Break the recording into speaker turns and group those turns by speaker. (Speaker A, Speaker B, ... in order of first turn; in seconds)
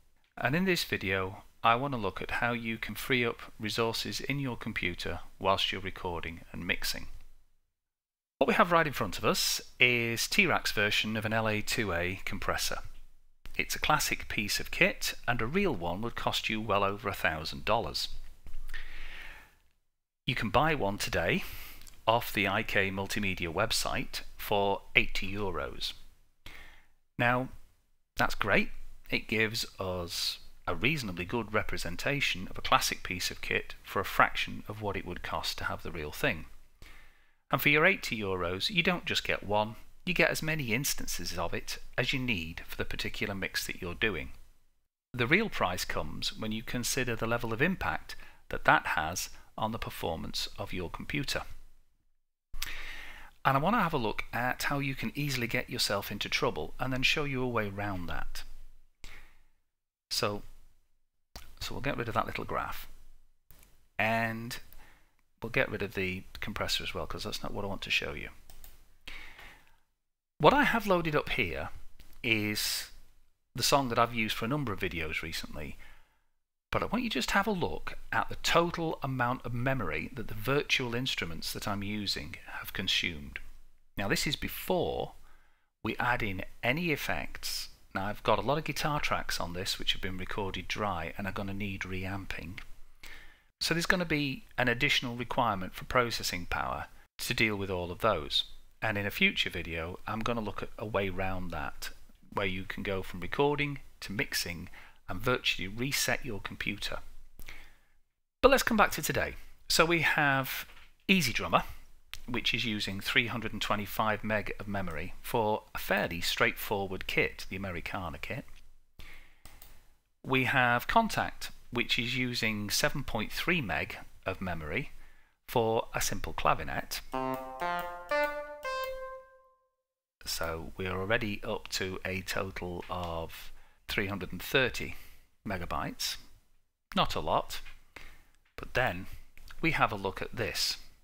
Speaker A: 0.4-7.1, 8.4-12.8, 13.6-18.1, 20.3-21.4, 22.1-25.9, 27.2-27.5, 28.2-36.5, 37.5-44.3, 45.1-51.4, 53.4-58.5, 60.1-60.4, 61.6-62.9, 64.0-64.6, 65.4-68.3, 70.4-71.7, 72.2-72.9, 73.5-75.8, 76.7-83.4, 84.0-85.1, 85.8-92.6, 93.6-107.0, 108.4-111.6, 112.3-118.5, 120.2-124.9, 125.5-127.0, 130.2-136.2, 136.9-137.6, 138.6-139.1, 139.6-140.8